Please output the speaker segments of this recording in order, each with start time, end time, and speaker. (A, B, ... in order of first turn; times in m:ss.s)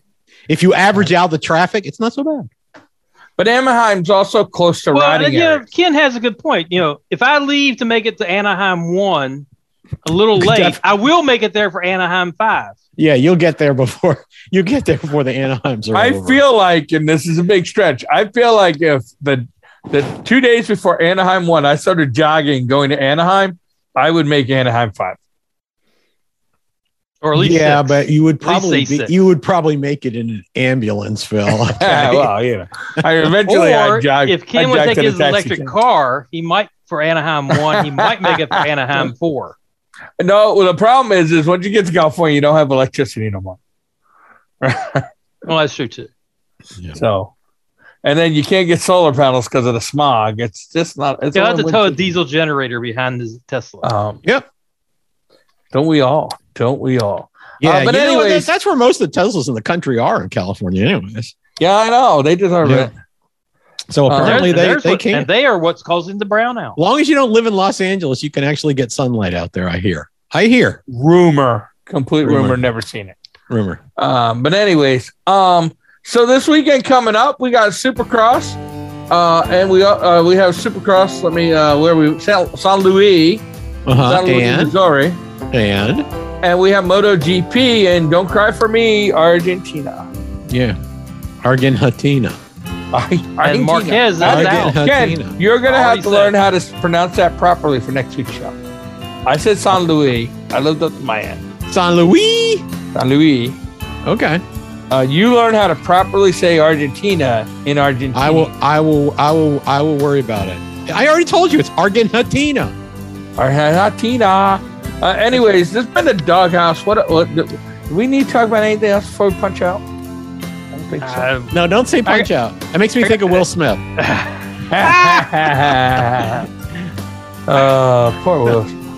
0:00.5-0:02.5 A
0:03.4-0:05.7 B
0:04.9-0:09.5 C
0:10.0-0:12.8 C
0:10.4-0:10.8 A
0:13.0-0:16.4 A
0:15.9-0:25.2 B
0:27.2-0:29.2 C
0:27.4-0:32.3 A
0:31.6-0:35.7 B
0:33.5-0:39.6 C
0:37.5-0:39.1 B
0:40.2-0:43.6 B
0:44.6-0:45.1 B
0:45.5-0:46.1 C
0:46.9-0:47.3 B
0:48.0-0:52.0 B
0:51.3-0:53.9 C
0:53.8-0:54.2 B
0:55.7-0:58.5 B
0:57.6-1:01.3 A
1:01.6-1:02.9 B
1:02.6-1:02.9 A
1:03.9-1:05.3 A
1:04.1-1:04.4 B
1:04.2-1:06.8 C
1:06.8-1:10.8 A
1:10.9-1:13.2 B
1:12.2-1:12.6 A
1:13.5-1:13.8 A
1:14.0-1:18.6 B
1:19.1-1:25.2 B
1:23.9-1:24.8 A
1:25.5-1:26.1 A
1:26.4-1:30.1 B
1:30.5-1:30.8 A
1:31.4-1:32.4 A
1:32.9-1:38.6 B
1:33.4-1:34.8 C
1:34.2-1:35.4 A
1:35.7-1:36.3 C
1:39.3-1:41.4 B
1:41.7-1:42.6 A
1:42.9-1:43.6 B
1:44.0-1:44.4 A
1:44.9-1:48.5 B
1:48.1-1:52.7 A
1:53.4-1:59.8 B
2:00.7-2:01.3 B
2:01.0-2:01.5 C
2:01.5-2:03.8 A
2:04.0-2:05.3 C
2:04.7-2:06.5 B
2:07.5-2:08.8 B